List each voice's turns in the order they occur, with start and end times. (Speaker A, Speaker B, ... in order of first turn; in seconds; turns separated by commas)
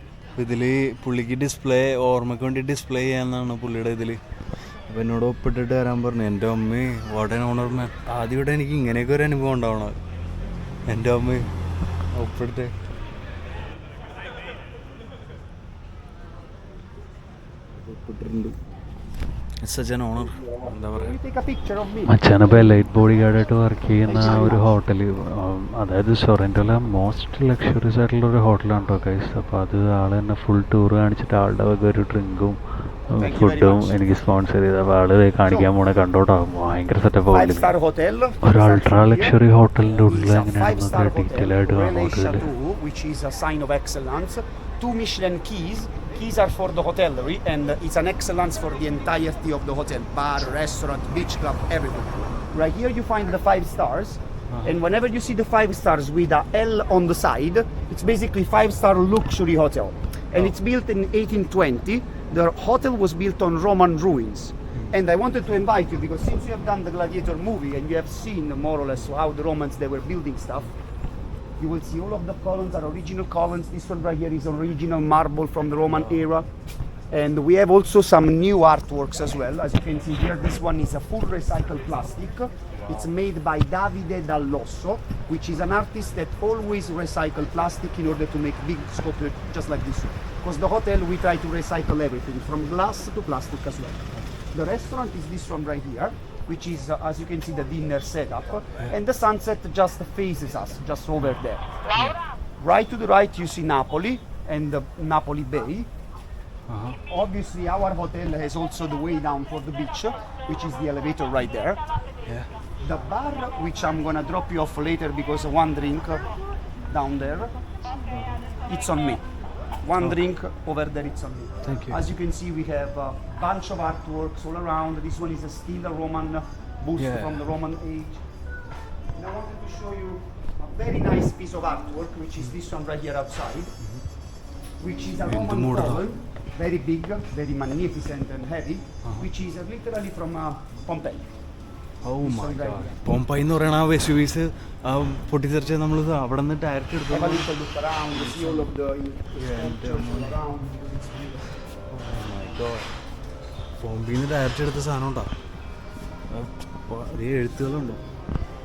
Speaker A: 0.3-4.2, Speaker A: 4.7-10.0, Speaker A: 10.8-11.5, Speaker A: 12.1-12.7, Speaker A: 17.9-18.5, Speaker A: 19.6-21.2, Speaker B: 20.2-22.9, Speaker C: 22.1-37.8, Speaker B: 24.0-24.7, Speaker B: 33.1-34.0, Speaker B: 37.3-70.7, Speaker C: 38.4-42.5, Speaker B: 71.6-76.5, Speaker B: 77.1-101.7, Speaker A: 82.8-83.1, Speaker B: 102.6-105.9, Speaker A: 106.7-107.0, Speaker B: 107.1-111.8, Speaker B: 112.8-116.3, Speaker B: 116.9-117.6, Speaker A: 118.1-118.4, Speaker B: 118.7-119.2, Speaker B: 119.8-128.2, Speaker A: 121.6-122.0, Speaker A: 127.0-127.4, Speaker B: 129.1-133.7, Speaker B: 134.8-141.3, Speaker A: 135.2-136.1, Speaker A: 142.0-147.5, Speaker B: 142.2-143.0, Speaker B: 147.1-151.7, Speaker A: 148.1-148.7, Speaker A: 149.3-150.3, Speaker A: 151.9-152.9, Speaker A: 153.7-155.4, Speaker A: 156.3-158.1